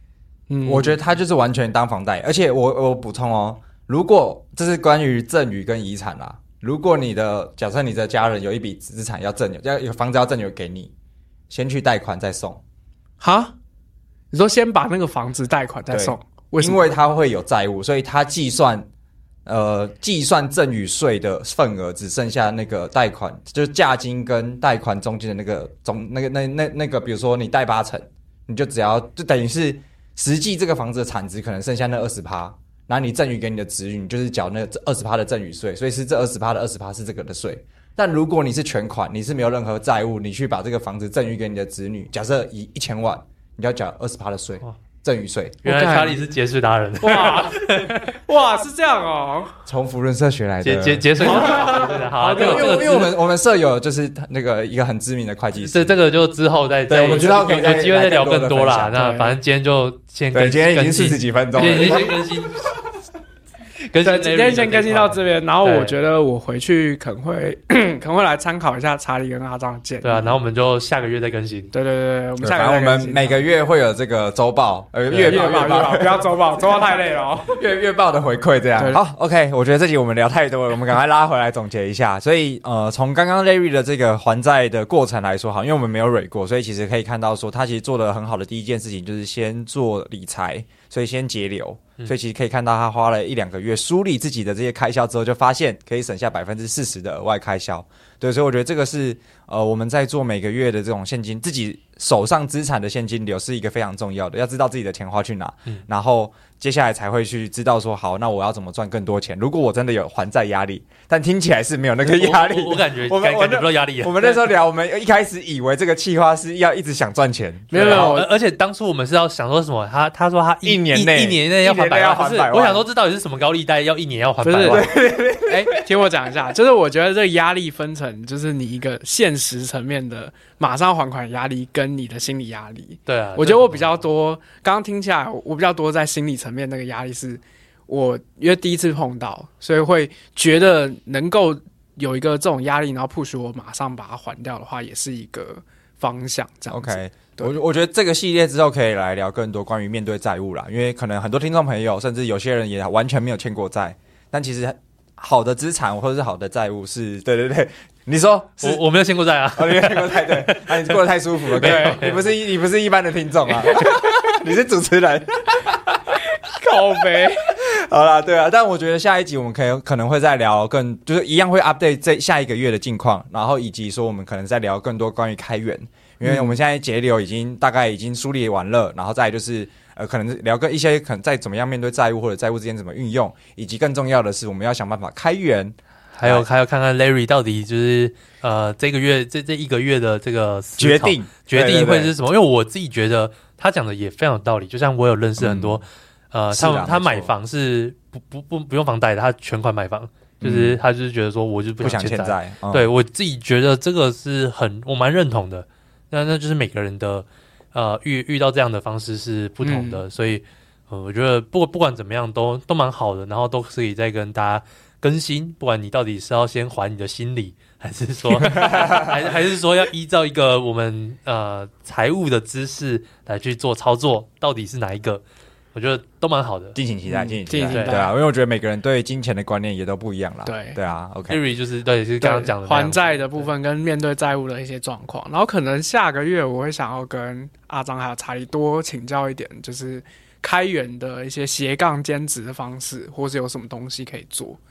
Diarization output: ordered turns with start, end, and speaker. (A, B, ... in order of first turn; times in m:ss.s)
0:00.5-0:01.0 A
0:00.6-0:10.9 B
0:11.5-0:12.6 B
0:13.2-0:13.6 A
0:14.3-0:16.8 A
0:15.9-0:18.9 B
0:19.5-0:45.6 B
0:45.6-0:48.2 C
0:45.6-0:46.2 A
0:47.0-0:49.6 A
0:49.7-0:55.9 B
0:50.6-0:53.2 C
0:51.2-0:52.8 A
0:55.6-1:02.8 C
0:56.9-0:59.0 B
0:58.9-0:59.4 A
1:00.3-1:02.2 B
1:03.9-1:06.0 C
1:04.0-1:10.3 A
1:10.0-1:11.7 C
1:11.7-1:13.4 A
1:12.4-1:16.6 B
1:15.1-1:15.4 C
1:15.2-1:17.6 A
1:17.5-1:58.1 B
1:52.0-1:54.4 C
1:57.7-1:58.3 A
1:57.7-2:04.9 C
2:00.6-2:02.8 B
2:04.4-2:27.5 A
2:04.6-2:05.8 B
2:13.1-2:14.0 C
2:26.7-2:38.8 B
2:38.6-2:41.0 C
2:39.6-2:45.8 B
2:41.5-2:42.2 C
2:41.6-2:42.1 A
2:46.4-2:47.6 A
2:47.6-3:06.5 B
2:56.2-2:56.6 A
3:06.2-3:45.2 C
3:10.8-3:12.1 B
3:15.4-3:15.8 B
3:16.5-3:17.3 B
3:20.4-3:20.8 B
3:21.8-3:22.9 B
3:29.6-3:30.0 A
3:38.4-3:39.1 B
3:45.7-3:46.8 C
3:46.8-3:51.4 B
3:47.1-3:48.1 A
3:47.7-3:48.1 C
3:50.5-3:50.8 A
3:51.3-3:53.5 C
3:52.2-4:04.6 A